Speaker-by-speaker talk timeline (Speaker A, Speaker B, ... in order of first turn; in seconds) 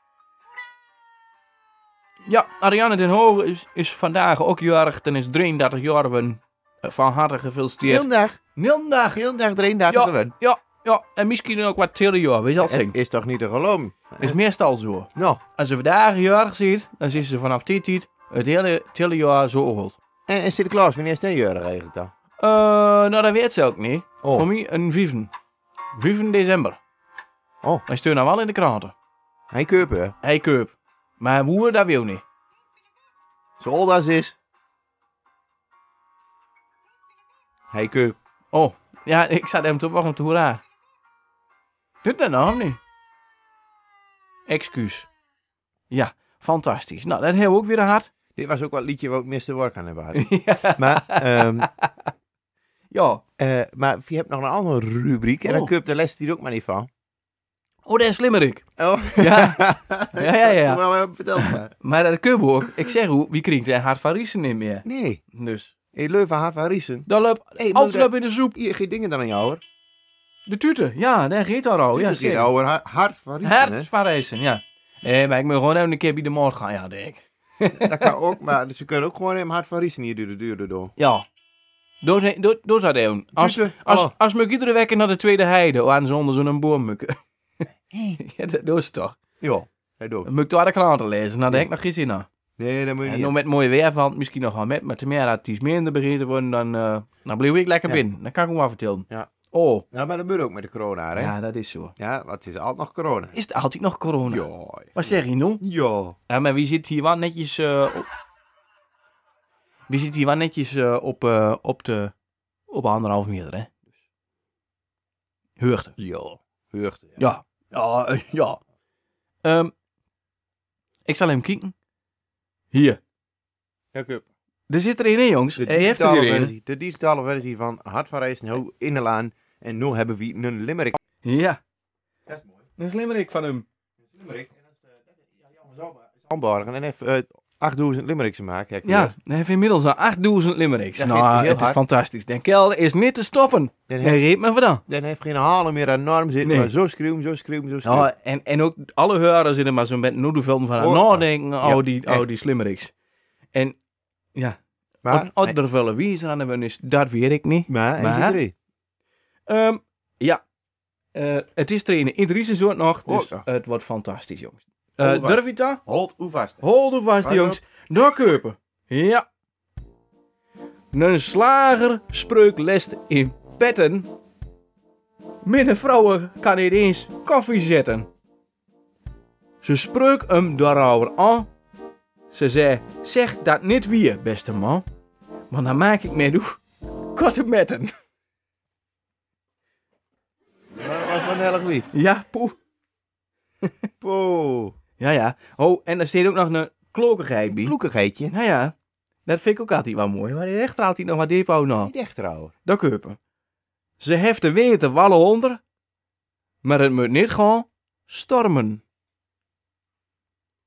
Speaker A: 2.2-9.2, 9.9-12.9, 14.2-20.0, 22.4-25.3, 25.9-26.8, 27.9-28.9, 30.2-32.2, 38.5-40.6, 42.0-42.8, 44.5-45.1, 45.9-48.1, 50.1-51.9, 52.9-53.2, 55.5-55.7, 57.9-60.8, 61.4-65.7, 67.1-68.6, 70.5-72.5, 73.4-78.1, 81.0-81.2, 82.0-89.2, 90.2-92.3, 93.0-99.8, 101.2-101.9, 103.3-104.4, 104.9-105.6, 106.3-108.1, 109.9-112.1, 112.7-113.7, 115.6-115.9, 117.2-118.6, 119.4-119.7, 121.0-121.7, 122.7-123.0, 124.7-126.5, 131.2-131.6, 132.8-133.7, 138.8-144.8, 146.4-146.7, 147.8-152.9, 154.3-158.4, 159.5-160.4, 161.1-165.8, 166.6-169.2, 170.9-174.1, 175.4-178.1, 179.6-181.5, 182.3-184.8, 185.5-187.9, 191.9-192.6, 195.0-197.7, 198.3-198.7, 199.2-201.9, 202.6-203.2, 204.0-205.6, 206.6-208.8
Speaker B: 7.8-8.4, 9.1-10.3, 12.6-14.4, 15.1-15.4, 20.3-22.1, 24.2-24.5, 29.5-30.1, 33.6-34.4, 37.7-38.2, 48.3-51.7, 53.4-56.9, 58.8-61.7, 64.8-65.2, 65.9-69.6, 71.9-73.9, 77.7-80.9, 83.4-84.1, 87.9-88.2, 89.4-90.3, 92.6-93.3, 99.9-101.3, 102.0-103.3, 104.3-106.2, 116.0-117.2, 123.9-124.3, 125.6-131.0, 132.3-132.6, 134.0-139.1, 140.9-141.8, 143.9-144.2, 144.9-148.1, 150.8-152.2, 155.0-155.6, 157.7-158.5, 163.1-163.4, 165.0-166.6, 167.2-167.6, 190.8-191.9, 194.0-194.8, 197.5-198.3, 201.8-202.5